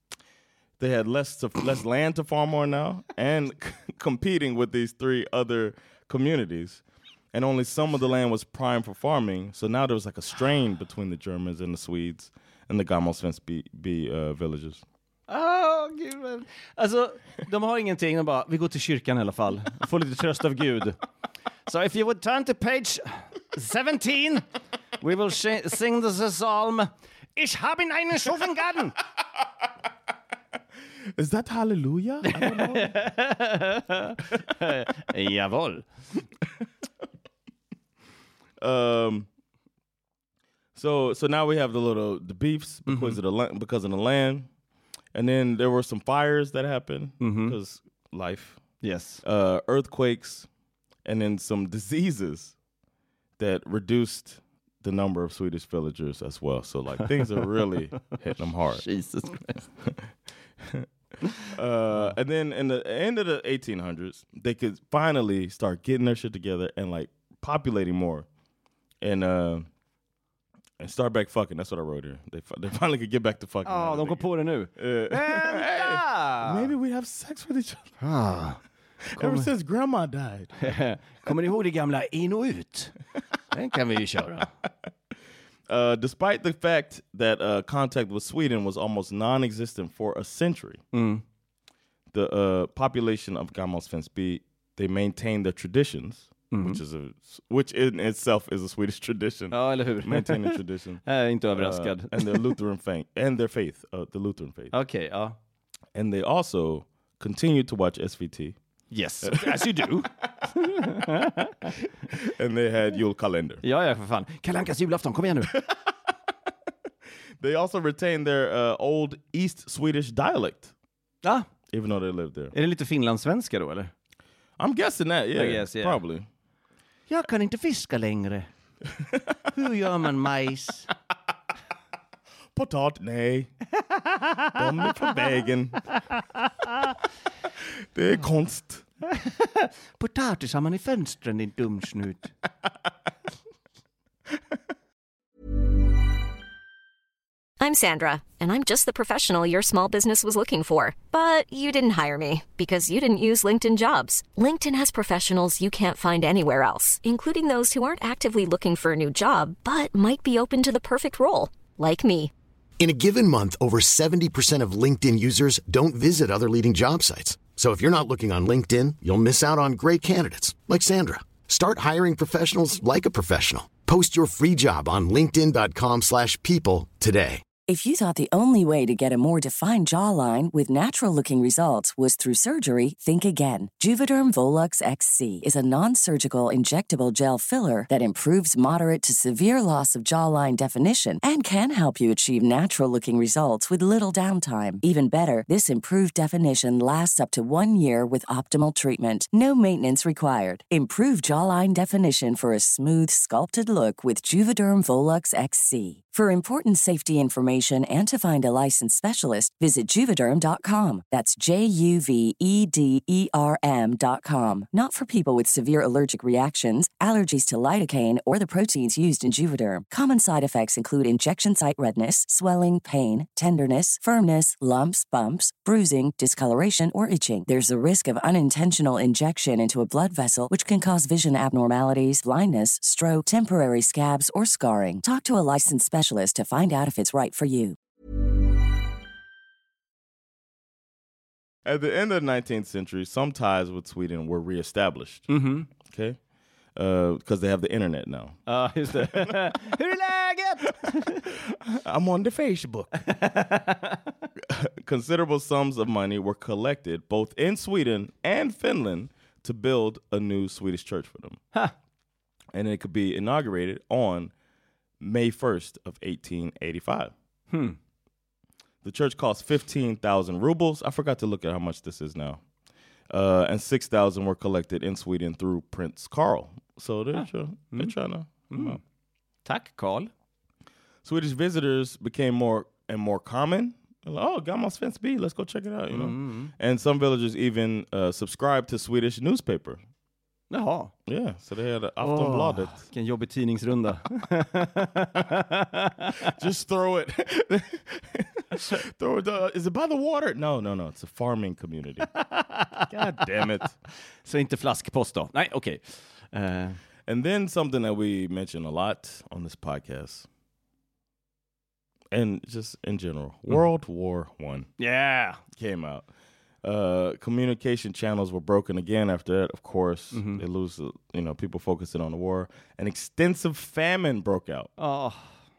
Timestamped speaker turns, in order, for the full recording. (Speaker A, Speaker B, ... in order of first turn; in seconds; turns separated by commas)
Speaker A: 0.8-14.8, Speaker B: 15.3-21.0, Speaker B: 21.7-24.4, Speaker B: 25.0-29.0, Speaker A: 31.1-33.0, Speaker B: 32.2-35.9, Speaker A: 38.6-39.3, Speaker A: 40.8-44.5, Speaker B: 42.9-43.2, Speaker A: 45.1-48.6, Speaker B: 47.2-47.6, Speaker B: 48.8-49.2, Speaker A: 49.2-50.5, Speaker A: 51.0-52.5, Speaker A: 53.4-58.9, Speaker B: 58.7-59.6, Speaker A: 61.5-68.3, Speaker A: 69.0-69.7, Speaker A: 70.8-78.0, Speaker B: 73.6-76.7, Speaker B: 78.0-78.6, Speaker A: 79.1-80.8, Speaker B: 79.2-79.5, Speaker B: 80.6-83.0, Speaker B: 83.5-84.5, Speaker A: 85.7-90.8, Speaker B: 90.9-91.2, Speaker A: 92.1-101.0, Speaker B: 96.5-96.8, Speaker B: 99.5-102.6, Speaker A: 101.5-104.8, Speaker B: 104.7-105.4, Speaker A: 106.0-108.6, Speaker B: 108.9-111.8, Speaker A: 109.2-110.1, Speaker A: 112.1-113.6, Speaker B: 113.6-115.5, Speaker A: 117.4-120.7, Speaker B: 121.2-121.5, Speaker A: 121.7-122.5, Speaker B: 122.5-123.9, Speaker A: 124.6-126.3, Speaker B: 125.3-126.0, Speaker B: 127.1-128.5, Speaker B: 129.5-130.9, Speaker A: 132.6-133.5, Speaker B: 133.8-135.1, Speaker A: 134.5-135.9, Speaker B: 136.4-136.7, Speaker A: 137.9-138.8, Speaker B: 139.1-142.3, Speaker C: 147.6-162.3, Speaker D: 162.8-177.4, Speaker E: 177.7-237.8, Speaker A: 241.7-245.3, Speaker B: 245.3-245.7, Speaker A: 245.9-246.2, Speaker A: 246.8-248.4, Speaker B: 248.5-251.3, Speaker A: 248.9-249.6, Speaker A: 251.3-253.1, Speaker B: 253.0-254.1, Speaker A: 254.4-261.4, Speaker A: 262.5-264.3, Speaker A: 265.0-267.1, Speaker B: 267.5-267.8, Speaker A: 268.8-272.4, Speaker A: 273.1-278.8, Speaker B: 277.1-277.9, Speaker B: 278.5-278.8, Speaker B: 279.4-280.1, Speaker A: 281.0-289.8, Speaker B: 285.9-286.5, Speaker B: 290.5-290.9, Speaker A: 291.1-292.9, Speaker B: 292.0-296.3, Speaker A: 296.2-302.1, Speaker B: 302.0-302.9, Speaker A: 302.9-303.8, Speaker B: 304.2-306.8, Speaker A: 307.1-310.3, Speaker A: 312.1-314.7, Speaker B: 314.8-315.4, Speaker A: 315.6-316.1, Speaker A: 316.6-324.7, Speaker B: 320.1-320.4, Speaker B: 324.8-325.4